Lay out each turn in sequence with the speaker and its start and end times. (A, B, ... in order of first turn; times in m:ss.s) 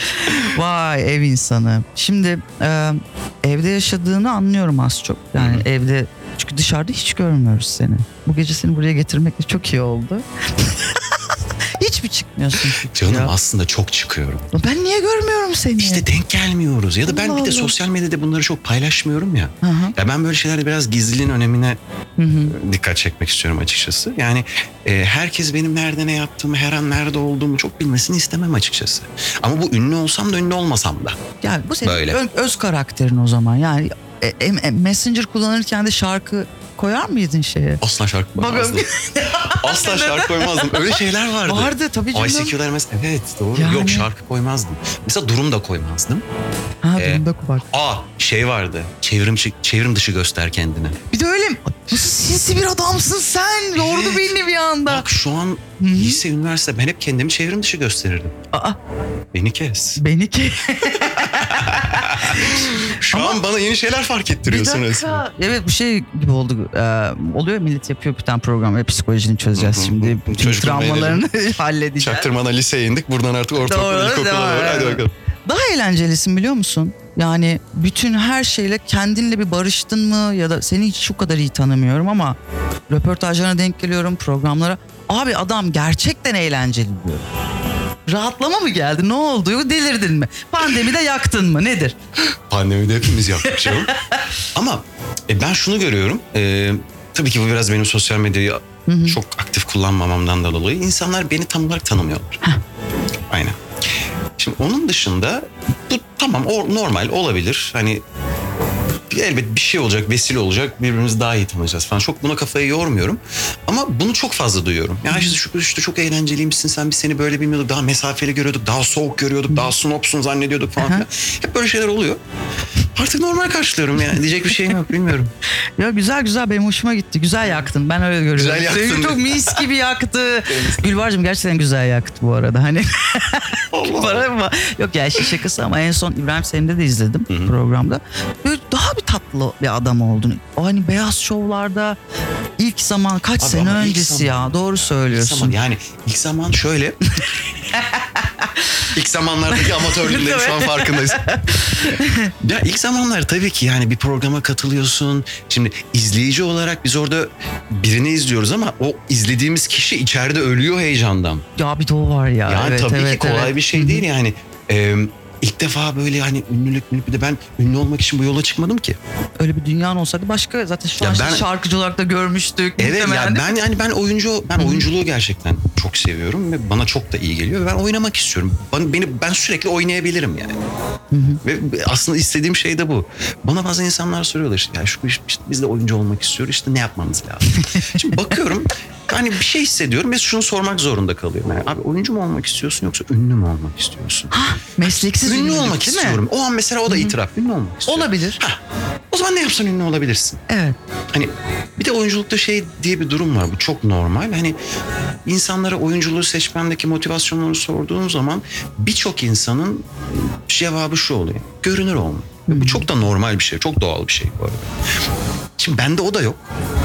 0:00.1-0:11.2 A
0:05.4-0:05.7 B
0:11.8-0:13.3 A
0:12.9-0:14.5 B
0:14.5-0:16.1 A
0:15.8-0:21.8 B
0:17.1-0:17.8 A
0:19.6-0:19.9 A
0:22.2-0:22.6 A
0:22.4-0:31.2 B
0:31.4-0:37.8 A
0:31.8-0:32.2 B
0:37.8-0:38.9 B
0:38.4-0:42.5 A
0:39.5-0:46.2 B
0:43.5-0:44.1 A
0:46.8-0:47.6 A
0:47.0-0:51.0 B
0:51.1-0:55.1 A
0:53.8-0:58.3 B
0:55.8-0:56.2 A
0:58.5-0:58.8 A
0:59.3-1:00.0 B
1:00.0-1:03.4 A
1:01.0-1:05.2 B
1:04.5-1:12.3 A
1:09.5-1:11.2 B
1:12.0-1:15.1 B
1:13.6-1:22.4 A
1:22.9-1:27.3 A
1:28.1-1:31.9 A
1:32.3-1:33.9 B
1:33.4-1:34.1 A
1:34.5-1:42.4 B
1:38.9-1:39.2 A
1:43.3-1:43.6 B
1:44.4-1:48.0 B
1:49.1-2:02.2 B
1:55.1-1:55.4 A
2:00.8-2:01.1 A
2:02.9-2:05.3 B
2:05.8-2:22.0 A
2:08.3-2:09.6 B
2:10.5-2:11.0 B
2:13.7-2:14.3 B
2:17.3-2:17.5 B
2:22.6-2:25.6 A
2:23.4-2:27.0 B
2:28.9-2:31.3 B
2:29.6-2:32.3 A
2:32.4-2:41.4 B
2:41.6-2:44.0 A
2:42.4-2:49.0 B
2:49.4-2:53.6 A
2:51.0-2:51.5 B
2:52.8-3:00.6 B
2:54.6-2:54.9 A
3:01.1-3:01.4 A
3:01.4-3:18.6 B
3:07.5-3:07.8 A
3:14.3-3:16.2 A
3:16.9-3:17.2 A
3:17.9-3:18.4 A
3:19.1-3:20.4 B
3:20.5-3:20.8 A
3:21.1-3:24.6 B
3:25.2-3:34.7 B
3:32.5-3:32.9 A
3:35.6-3:36.5 B